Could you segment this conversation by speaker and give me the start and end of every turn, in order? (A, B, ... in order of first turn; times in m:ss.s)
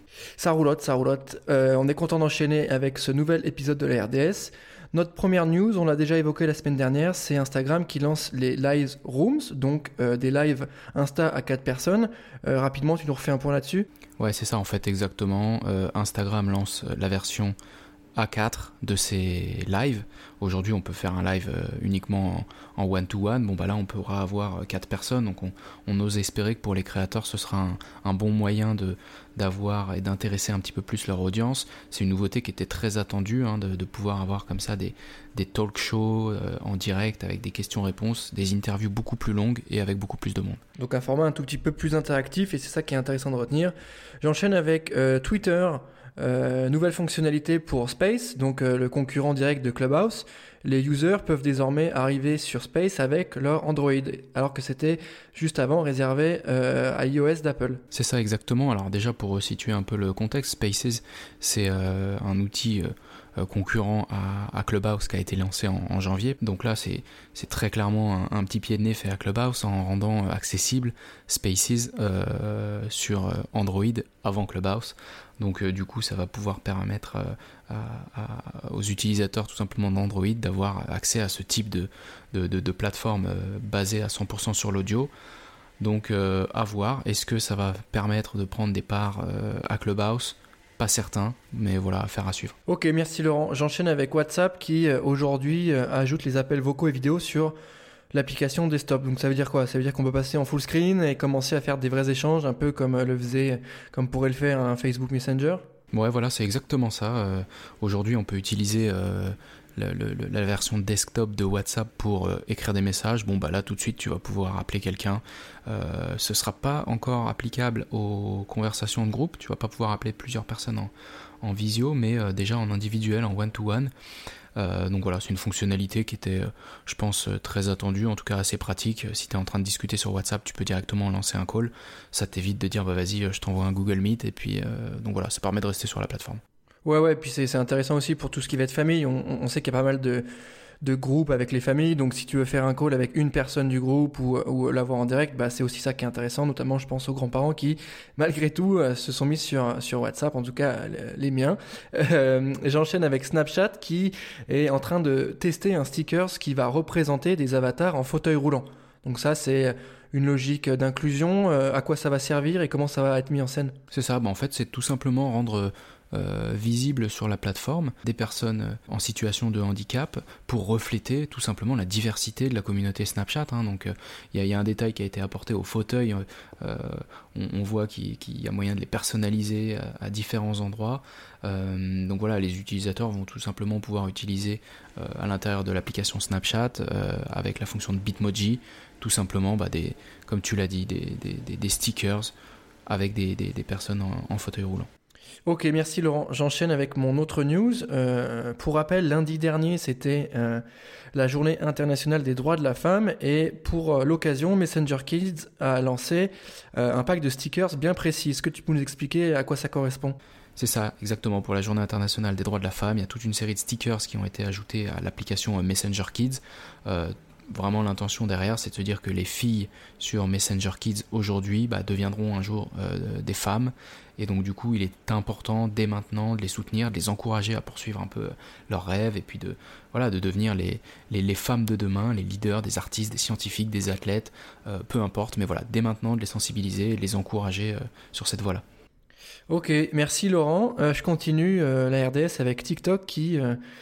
0:00.4-0:13.9 A
0:14.2-0:17.6 B
0:18.2-0:40.6 B
0:40.8-0:57.8 A
0:57.9-1:25.1 B
1:25.8-1:32.5 B
1:32.7-1:37.6 A
1:38.1-1:45.6 A
1:45.9-2:03.9 B
2:04.6-2:16.4 B
2:16.8-2:20.3 A
2:20.8-2:43.8 A
2:43.9-3:12.3 B
3:12.9-3:14.9 B
3:15.5-3:20.6 A
3:21.2-3:30.2 A
3:30.6-3:58.6 B
3:59.5-4:03.6 A